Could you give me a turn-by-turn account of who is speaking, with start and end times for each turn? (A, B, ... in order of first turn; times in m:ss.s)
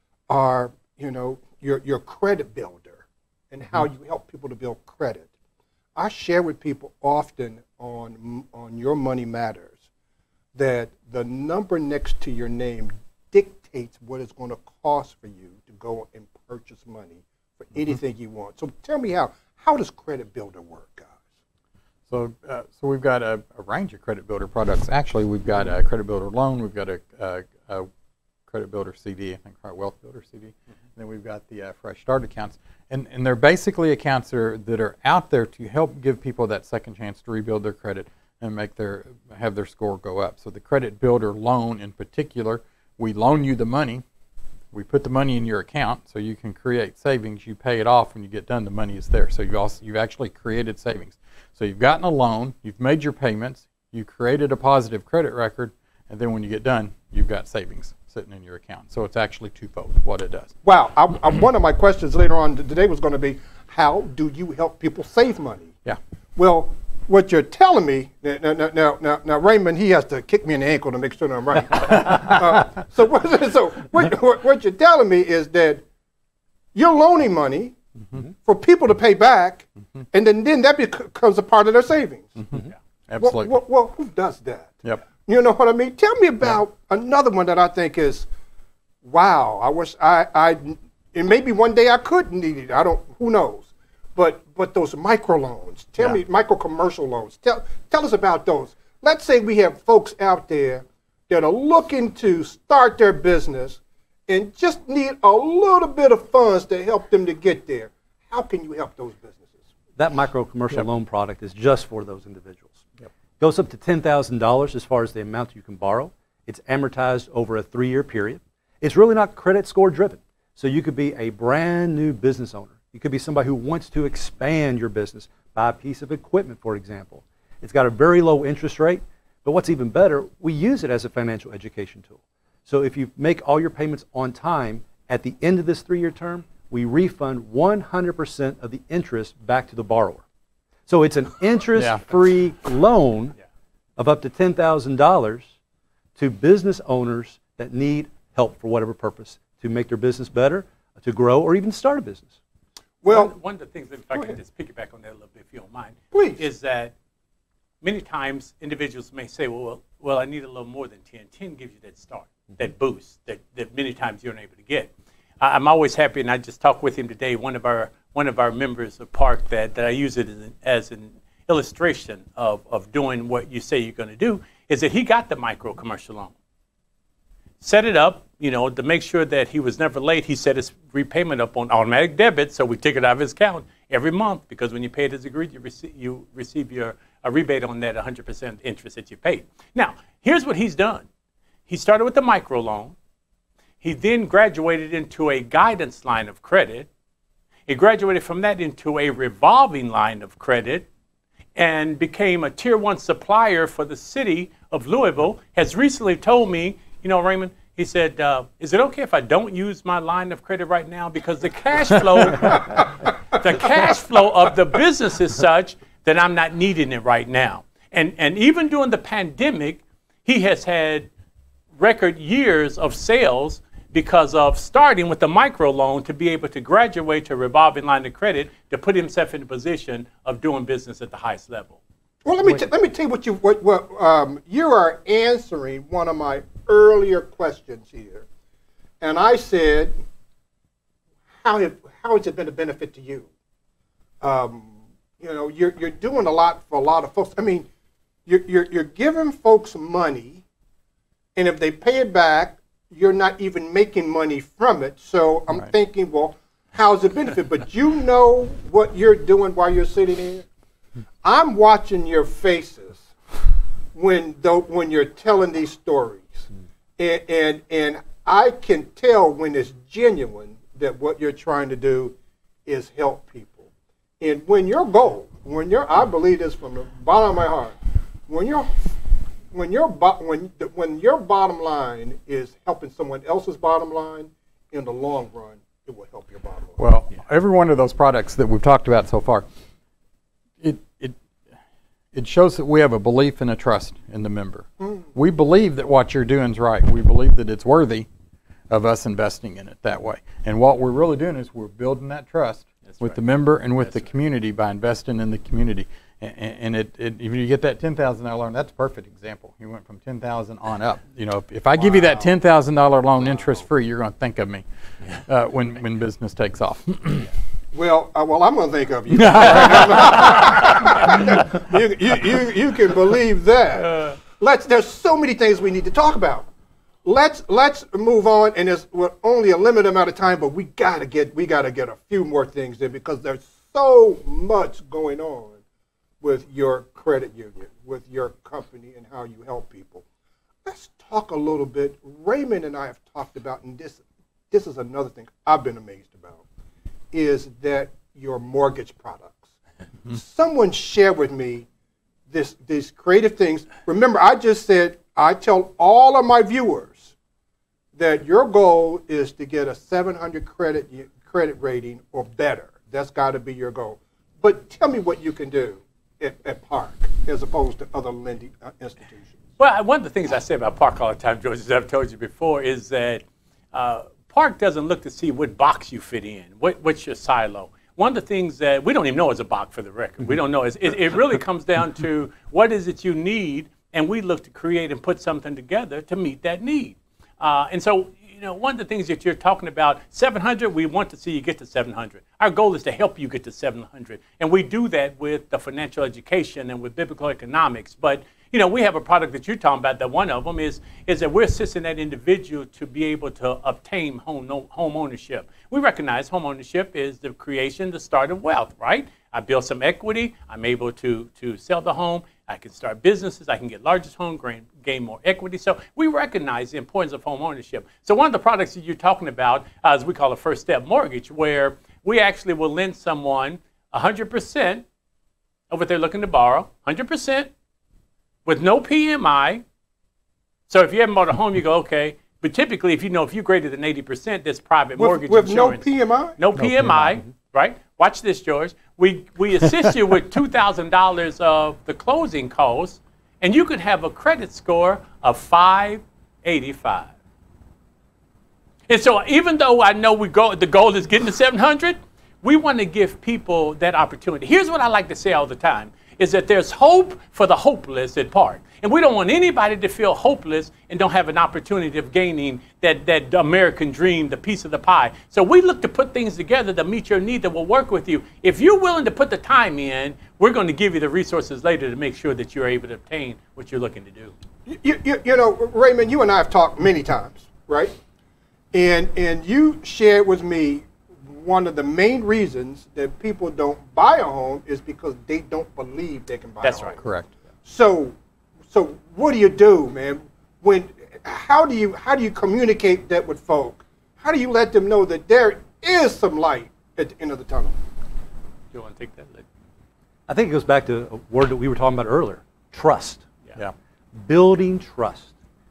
0:00.3-0:05.3 A
0:06.0-0:09.8 A
0:10.5-0:21.2 A
0:22.1-0:27.9 B
0:28.5-0:44.0 B
0:44.7-1:00.5 B
1:00.6-1:05.7 A
1:06.4-1:15.8 A
1:16.7-1:17.8 A
1:18.4-1:22.4 A
1:22.4-1:23.5 B
1:23.2-1:28.3 A
1:29.0-1:49.5 A
1:50.0-1:52.8 C
1:53.4-2:20.2 C
2:20.9-2:23.4 C
2:21.7-2:22.0 B
2:24.0-2:25.5 C
2:26.2-2:32.3 C
2:33.0-2:33.3 A
2:33.0-2:36.9 D
2:36.1-2:36.4 A
2:37.8-2:56.3 D
2:57.6-3:11.1 D
3:11.7-3:13.0 D
3:13.8-3:16.9 D
3:17.7-3:20.8 D
3:21.6-3:41.1 D
3:41.8-3:51.8 D
3:52.2-3:58.2 A
3:59.0-3:59.9 A
4:01.4-4:03.3 A
4:04.2-4:07.7 A
4:08.2-4:10.4 A
4:11.3-4:20.5 A
4:21.2-4:23.1 A
4:23.9-4:26.5 A
4:27.0-4:32.1 A
4:32.6-4:33.7 A
4:34.2-4:39.0 A
4:39.5-4:46.8 A
4:46.8-4:49.4 B
4:50.6-4:51.2 B
4:52.1-4:58.1 B
4:58.7-5:17.3 B
5:02.9-5:03.2 D
5:17.7-5:26.5 A
5:19.1-5:21.3 B
5:27.0-5:35.6 A
5:36.2-5:40.0 A
5:40.6-5:46.4 A
5:47.1-5:49.4 A
5:50.1-5:51.7 A
5:52.3-5:57.1 A
5:57.9-6:09.4 A
6:09.6-7:04.8 D
7:05.7-7:07.5 D
7:08.4-7:09.6 D
7:10.7-7:27.1 D
7:15.0-7:16.4 A
7:16.6-7:17.0 B
7:28.9-7:54.3 D
7:54.6-7:57.9 A
7:58.7-8:07.1 A
8:06.6-8:07.0 D
8:07.0-8:07.3 B
8:07.6-8:08.1 A
8:08.7-8:17.8 A
8:18.7-8:19.4 D
8:20.3-8:23.2 C
8:24.1-8:25.3 C